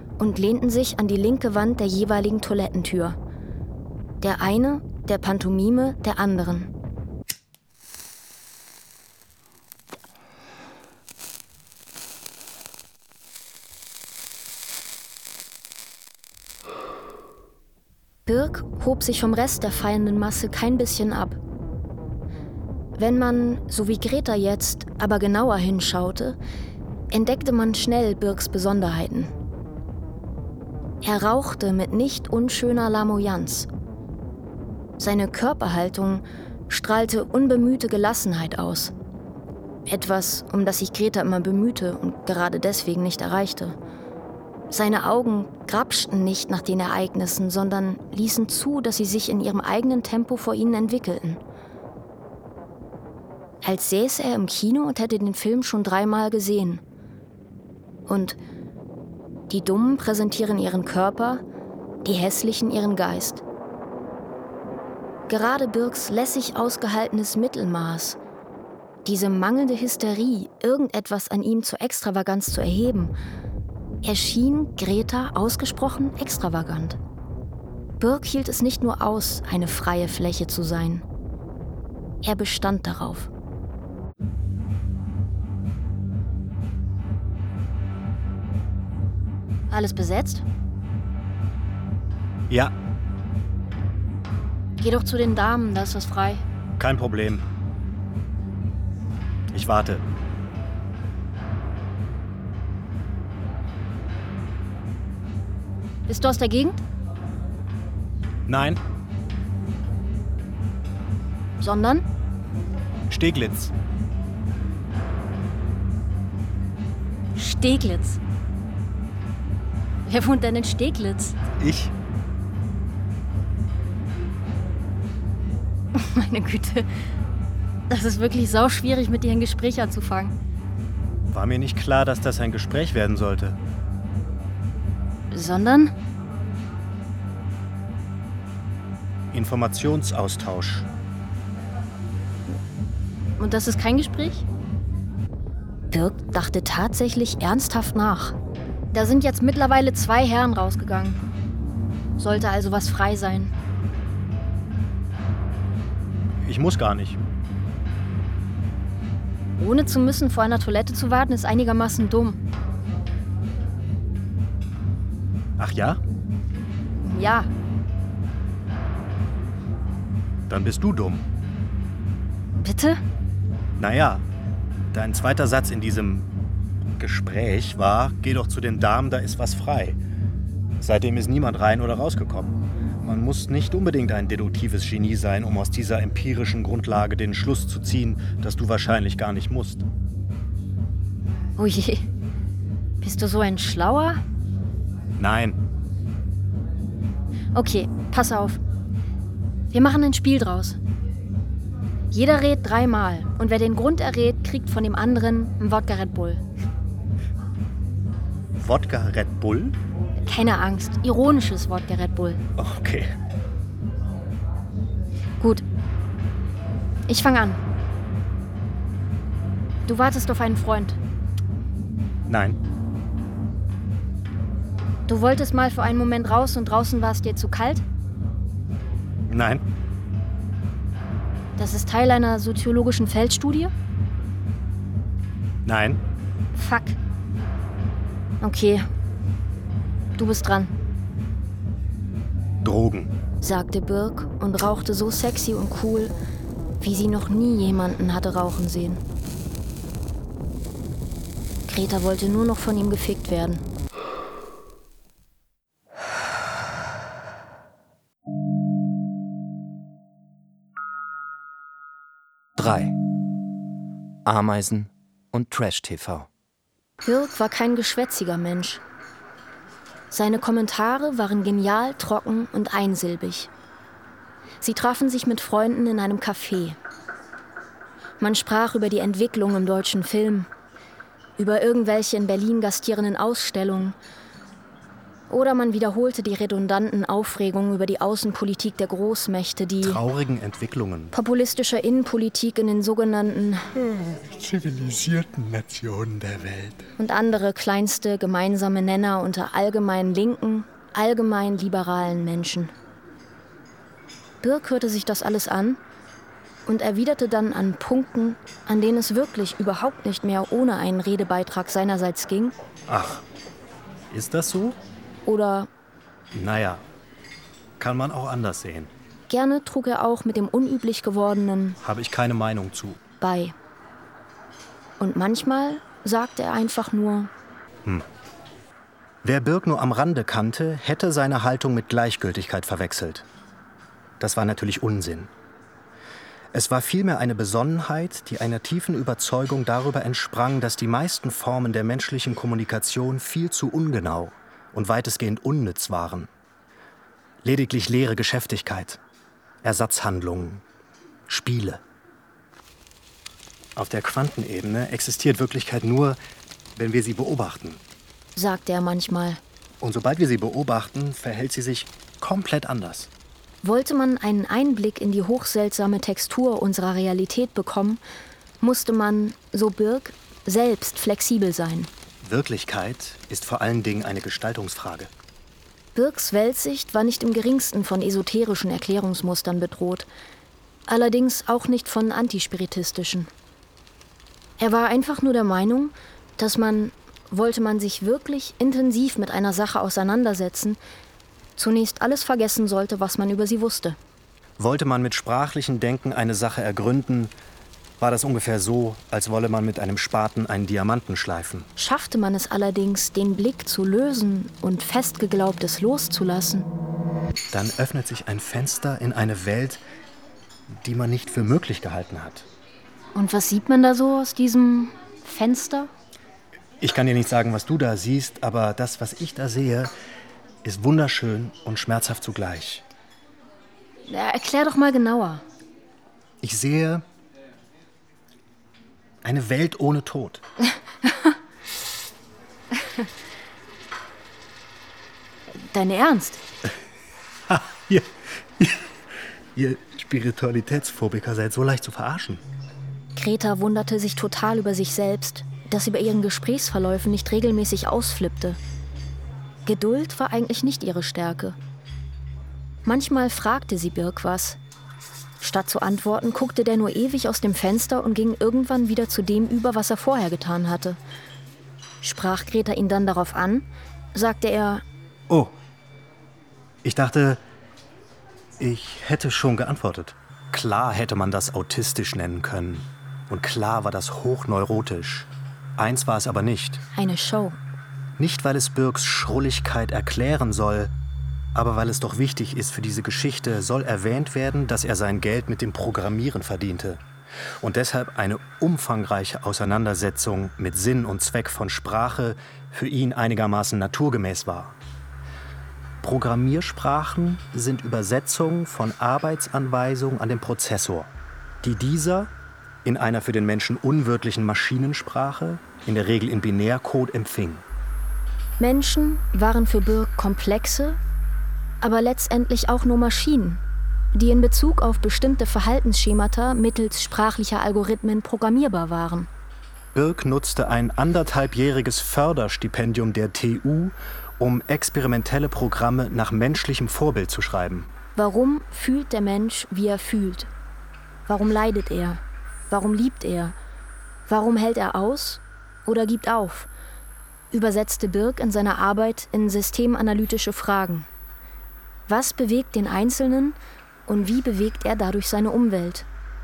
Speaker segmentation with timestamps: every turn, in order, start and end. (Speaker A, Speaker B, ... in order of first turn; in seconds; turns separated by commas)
Speaker A: 0.2-3.2, Speaker A: 4.2-6.7, Speaker A: 18.3-21.4, Speaker A: 23.0-26.4, Speaker A: 27.1-29.3, Speaker A: 31.0-33.7, Speaker A: 35.0-38.9, Speaker A: 39.9-43.8, Speaker A: 44.7-51.4, Speaker A: 53.6-56.8, Speaker A: 58.1-58.4, Speaker A: 59.5-61.4, Speaker A: 62.0-63.4, Speaker A: 65.3-68.2, Speaker A: 69.0-73.1, Speaker A: 74.0-77.0, Speaker A: 78.0-81.0, Speaker A: 82.2-83.3, Speaker A: 89.7-90.4, Speaker A: 94.8-96.4, Speaker B: 96.8-97.5, Speaker B: 99.5-100.0, Speaker A: 106.1-106.8, Speaker B: 108.5-108.8, Speaker A: 111.6-112.0, Speaker B: 113.1-113.7, Speaker A: 117.4-118.2, Speaker A: 120.1-121.4, Speaker B: 121.6-121.9, Speaker A: 126.0-126.9, Speaker A: 127.9-130.3, Speaker B: 131.3-133.6, Speaker A: 135.3-135.9, Speaker B: 139.3-140.9, Speaker A: 143.4-144.4, Speaker A: 145.9-148.3, Speaker A: 148.9-151.2, Speaker A: 152.2-153.5, Speaker B: 156.4-157.2, Speaker A: 159.6-162.4, Speaker B: 165.6-166.0, Speaker A: 167.0-167.5, Speaker B: 170.5-171.3, Speaker A: 172.6-173.0, Speaker B: 173.8-174.2, Speaker B: 174.9-176.3, Speaker B: 177.0-180.0, Speaker B: 180.8-189.8, Speaker A: 191.6-192.0, Speaker A: 193.0-194.2, Speaker B: 195.2-195.6, Speaker A: 197.6-198.6, Speaker A: 199.7-200.8, Speaker A: 202.1-206.4, Speaker B: 208.6-209.8, Speaker A: 210.3-212.4, Speaker B: 212.6-213.1, Speaker A: 217.1-217.6, Speaker A: 219.9-221.0, Speaker B: 222.3-222.6, Speaker A: 225.1-227.8, Speaker B: 229.3-229.6, Speaker A: 231.6-233.7, Speaker B: 235.7-236.0, Speaker A: 236.6-237.0, Speaker A: 238.4-238.9, Speaker A: 240.2-240.7, Speaker B: 242.6-243.1, Speaker A: 243.4-246.1, Speaker A: 246.8-249.0, Speaker A: 251.7-253.6, Speaker C: 262.6-263.0, Speaker C: 264.2-266.3, Speaker A: 267.0-268.8, Speaker A: 270.1-273.5, Speaker A: 274.6-276.8, Speaker A: 278.2-280.5, Speaker A: 281.4-284.0, Speaker A: 285.3-290.0, Speaker B: 289.8-291.1, Speaker A: 291.1-293.7, Speaker B: 293.8-296.9, Speaker A: 297.0-302.7, Speaker A: 304.4-305.8, Speaker A: 306.7-312.6, Speaker B: 312.9-313.2, Speaker B: 314.1-314.8, Speaker A: 315.3-315.7, Speaker B: 316.3-316.9, Speaker B: 317.8-318.9, Speaker A: 319.3-321.8, Speaker B: 321.8-323.0, Speaker A: 323.2-323.6, Speaker A: 325.0-327.3, Speaker B: 329.2-333.2, Speaker B: 334.2-335.3, Speaker B: 336.5-346.3, Speaker B: 347.4-349.0, Speaker B: 349.6-350.6, Speaker B: 351.3-351.8, Speaker B: 353.8-356.2, Speaker B: 356.8-357.8, Speaker A: 358.4-359.4, Speaker B: 359.8-363.1, Speaker A: 363.6-368.0, Speaker A: 368.6-371.9, Speaker B: 372.2-375.1, Speaker A: 375.9-380.1, Speaker A: 380.9-383.3, Speaker A: 384.6-390.8, Speaker A: 391.6-394.0, Speaker B: 394.6-397.3, Speaker B: 398.0-401.7, Speaker A: 401.8-406.7, Speaker B: 407.5-409.8, Speaker B: 410.7-412.5, Speaker A: 413.1-415.9, Speaker B: 416.8-419.9, Speaker B: 420.6-422.8, Speaker A: 424.1-425.4, Speaker B: 426.4-427.1, Speaker B: 429.2-430.4, Speaker A: 431.1-431.3, Speaker A: 435.6-436.4, Speaker B: 437.5-438.9, Speaker B: 439.6-442.4, Speaker A: 443.2-448.6, Speaker A: 449.7-451.6, Speaker A: 452.9-454.6, Speaker A: 455.4-461.0, Speaker A: 462.0-464.8, Speaker B: 465.3-465.6, Speaker B: 466.8-467.4, Speaker B: 468.6-476.8, Speaker A: 476.9-477.6, Speaker B: 478.2-480.9, Speaker B: 481.5-487.0, Speaker B: 487.6-494.8, Speaker B: 496.0-502.3, Speaker B: 502.9-507.6, Speaker A: 508.6-511.0, Speaker A: 511.8-513.6, Speaker A: 514.1-519.3, Speaker B: 519.9-527.9, Speaker A: 528.2-530.5, Speaker A: 531.3-533.5, Speaker A: 534.3-536.7, Speaker A: 537.5-541.1, Speaker A: 542.1-546.1